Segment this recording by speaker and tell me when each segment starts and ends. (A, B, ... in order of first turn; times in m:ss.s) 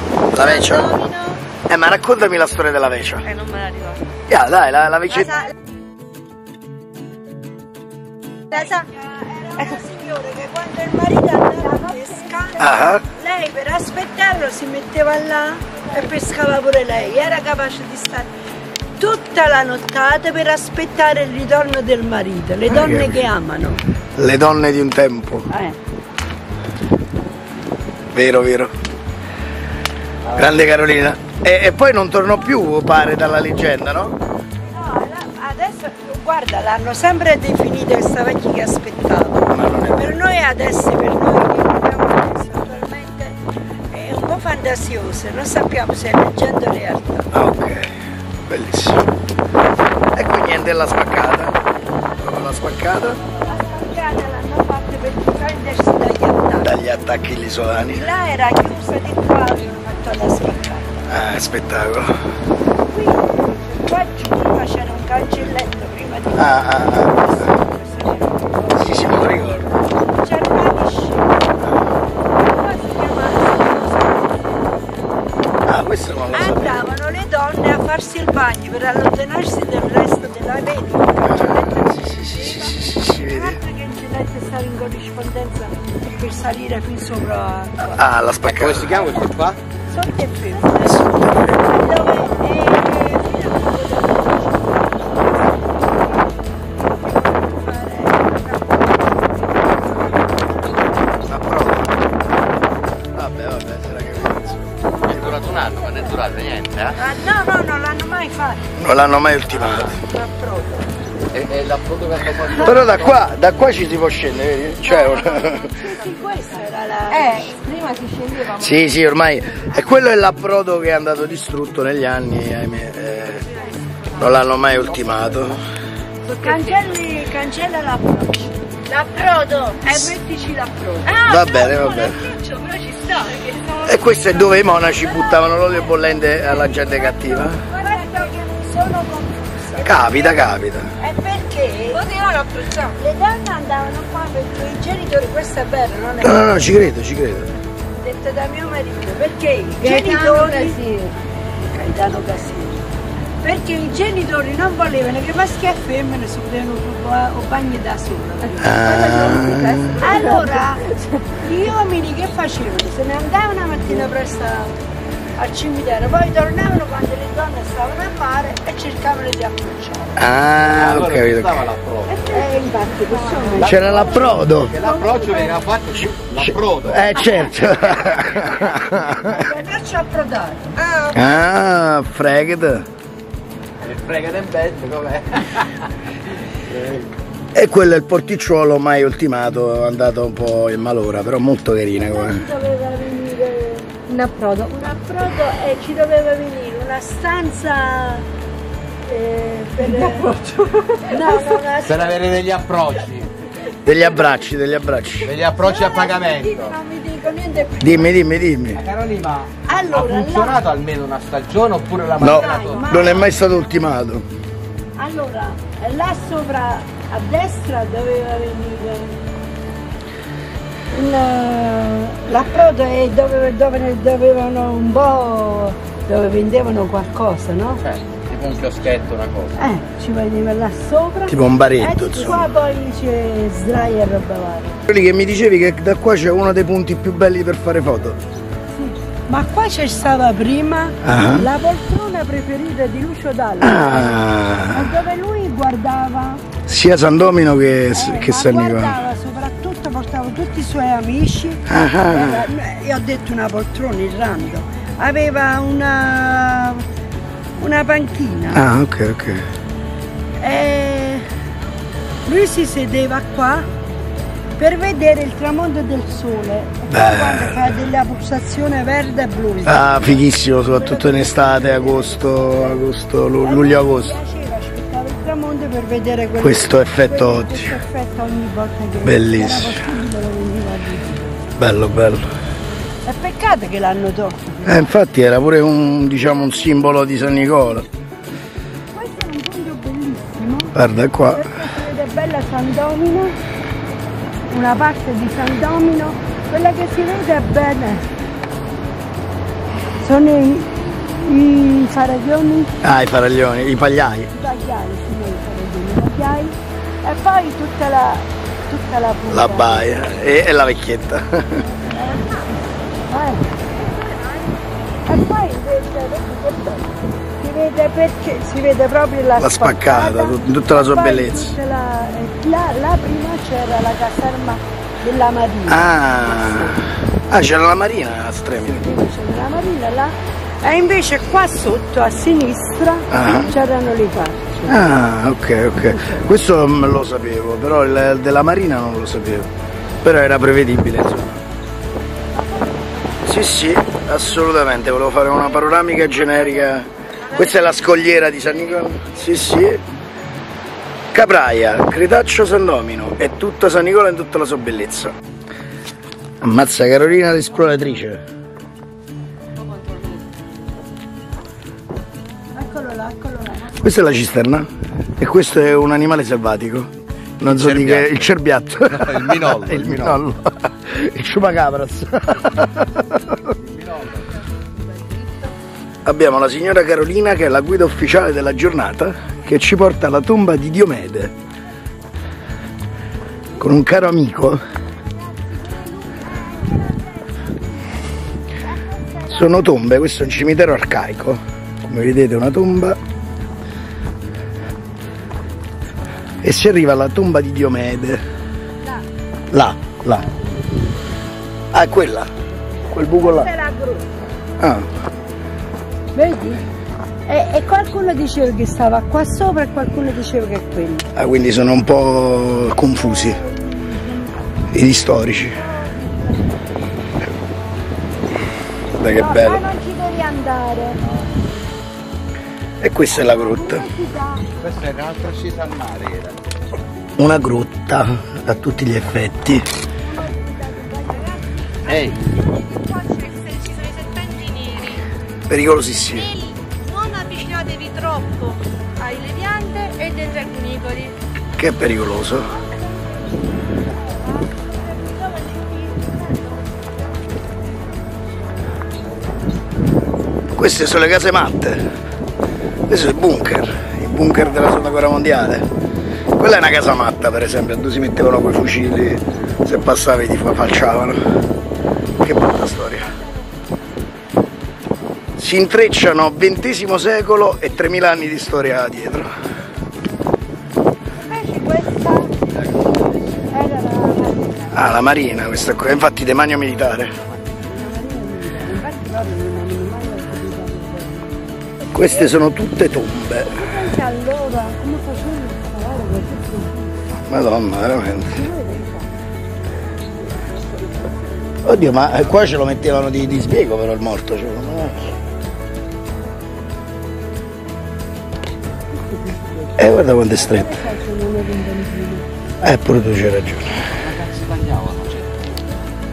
0:00.3-0:01.0 A
0:00.4-0:01.4 B
0:01.7-0:03.3 A
0:03.2-0:04.0 B
0:04.3-0:05.5 A
0:08.5-0:18.3 C
0:08.5-0:08.8 B
0:12.6-0:13.0 A
0:19.0-0:23.8 C
0:22.7-0:23.3 A
0:24.2-0:25.5 A
0:25.5-0:25.8 C
0:28.1-0:28.7 A
0:30.3-0:34.2 A
0:34.6-0:43.4 C
0:39.5-0:40.2 A
0:43.9-0:47.3 C
0:47.3-0:49.1 A
0:50.2-0:51.6 A
0:52.2-0:53.2 A
0:53.3-0:56.7 C
0:56.6-0:58.0 A
0:57.9-1:01.0 C
1:01.1-1:02.1 A
1:02.9-1:08.9 C
1:06.4-1:07.3 A
1:08.8-1:09.7 A
1:10.2-1:11.4 C
1:12.4-1:14.4 C
1:15.7-1:16.8 A
1:16.3-1:28.0 C
1:21.2-1:23.6 A
1:27.8-1:29.1 A
1:28.4-1:29.6 D
1:29.9-1:41.2 C
1:30.8-1:31.9 A
1:41.3-1:42.0 A
1:43.1-1:45.4 A
1:44.8-1:46.2 C
1:45.1-1:47.0 D
1:47.0-1:48.7 C
1:48.8-1:50.0 A
1:49.9-1:50.9 C
1:51.3-1:53.2 D
1:52.6-1:55.8 A
1:54.9-1:57.5 C
1:57.1-1:58.8 B
1:58.5-2:03.5 A
2:04.1-2:05.6 A
2:06.2-2:06.8 B
2:06.4-2:13.8 C
2:09.0-2:09.8 B
2:11.2-2:12.2 A
2:11.3-2:11.9 B
2:13.8-2:17.6 A
2:17.7-2:20.4 C
2:19.8-2:20.9 A
2:21.0-2:22.1 C
2:21.9-2:22.9 B
2:22.8-2:26.7 C
2:26.2-2:27.5 A
2:28.0-2:30.8 C
2:29.8-2:31.2 B
2:31.7-2:32.8 C
2:33.4-2:38.8 C
2:38.6-2:40.0 A
2:38.6-2:41.3 B
2:40.0-2:44.8 C
2:45.4-2:50.2 C
2:50.2-2:51.6 A
2:50.6-2:52.3 D
2:52.1-2:55.6 C
2:52.2-2:53.5 B
2:53.5-2:57.1 D
2:53.6-2:54.8 A
2:56.2-2:59.5 A
2:59.1-3:00.8 C
3:00.8-3:01.1 B
3:01.1-3:02.9 A
3:03.8-3:05.8 D
3:06.6-3:07.1 D
3:07.5-3:12.4 A
3:11.9-3:13.9 C
3:14.1-3:14.9 B
3:14.7-3:18.3 C
3:19.0-3:20.4 C
3:20.4-3:21.0 B
3:21.0-3:22.3 C
3:21.8-3:23.3 D
3:23.8-3:25.4 A
3:25.3-3:26.7 D
3:25.6-3:28.2 C
3:27.8-3:28.8 A
3:28.8-3:33.0 D
3:29.6-3:30.6 C
3:32.2-3:34.3 A
3:32.2-3:33.3 C
3:35.0-3:39.2 C
3:40.9-3:47.8 C
3:47.9-3:49.5 D
3:49.6-3:54.8 C
3:51.3-3:52.5 A
3:54.9-3:58.2 A
3:58.7-4:06.4 C
4:01.0-4:01.5 A
4:03.6-4:05.0 A
4:06.7-4:09.0 A
4:07.9-4:16.9 C
4:11.7-4:12.5 A
4:17.6-4:18.7 C
4:18.5-4:19.5 A
4:20.4-4:21.3 C
4:22.3-4:23.7 C
4:24.6-4:32.9 C
4:26.9-4:27.8 A
4:29.7-4:34.2 A
4:33.4-4:41.4 C
4:36.4-4:37.8 A
4:39.0-4:39.9 A
4:41.6-4:42.3 A
4:43.0-4:44.9 C
4:44.7-4:47.9 A
4:48.9-4:50.8 C
4:50.8-4:51.4 A
4:51.3-4:53.4 C
4:54.5-4:58.1 C
5:00.0-5:02.7 C
5:02.8-5:04.3 A
5:04.3-5:09.9 C
5:09.3-5:11.7 A
5:11.6-5:13.5 C
5:13.8-5:14.6 B
5:15.1-5:26.9 C
5:19.4-5:21.6 A
5:25.7-5:28.9 A
5:28.7-5:34.9 C
5:33.1-5:33.5 A
5:34.7-5:39.5 A
5:35.9-5:36.3 C
5:40.0-5:41.4 A
5:43.2-5:49.8 A
5:51.1-5:55.1 A
5:56.4-5:58.2 A
6:02.5-6:03.9 C
6:03.8-6:06.9 A
6:07.4-6:13.4 A
6:07.5-6:08.1 D
6:09.0-6:10.2 D
6:13.5-6:14.2 D
6:16.0-6:21.3 A
6:23.6-6:24.6 A
6:25.3-6:27.4 C
6:28.7-6:29.6 C
6:29.3-6:33.0 A
6:36.4-6:38.2 A
6:39.5-6:40.2 A
6:41.7-6:42.3 A
6:42.9-6:43.5 A
6:43.0-6:44.1 C
6:44.6-6:44.9 A
6:46.2-6:46.6 C
6:47.3-6:51.1 C
6:51.2-6:53.4 A
6:52.9-6:54.4 C
6:54.7-6:55.6 A
6:55.4-6:56.6 C
6:59.0-6:59.6 A
6:59.1-7:01.0 C
7:02.8-7:03.8 A
7:03.2-7:04.5 C
7:04.6-7:06.4 D
7:07.2-7:09.6 A
7:10.0-7:12.2 C
7:11.9-7:12.3 D
7:12.3-7:15.1 B
7:15.5-7:16.3 A
7:16.2-7:21.2 B
7:21.6-7:22.5 A
7:22.5-7:26.8 C
7:30.5-7:31.9 A
7:32.9-7:35.7 A
7:36.4-7:41.2 A
7:42.2-7:43.1 A
7:45.4-7:49.3 A
7:51.2-7:52.3 C
7:53.5-7:54.8 C
7:54.7-7:57.1 A
7:57.5-8:02.4 C
8:01.9-8:03.6 A
8:03.5-8:07.0 C
8:07.3-8:08.4 A
8:08.3-8:09.1 C
8:11.6-8:15.1 A
8:18.9-8:19.8 C
8:19.8-8:20.8 A
8:20.3-8:22.3 C
8:22.6-8:23.9 A
8:24.0-8:25.5 D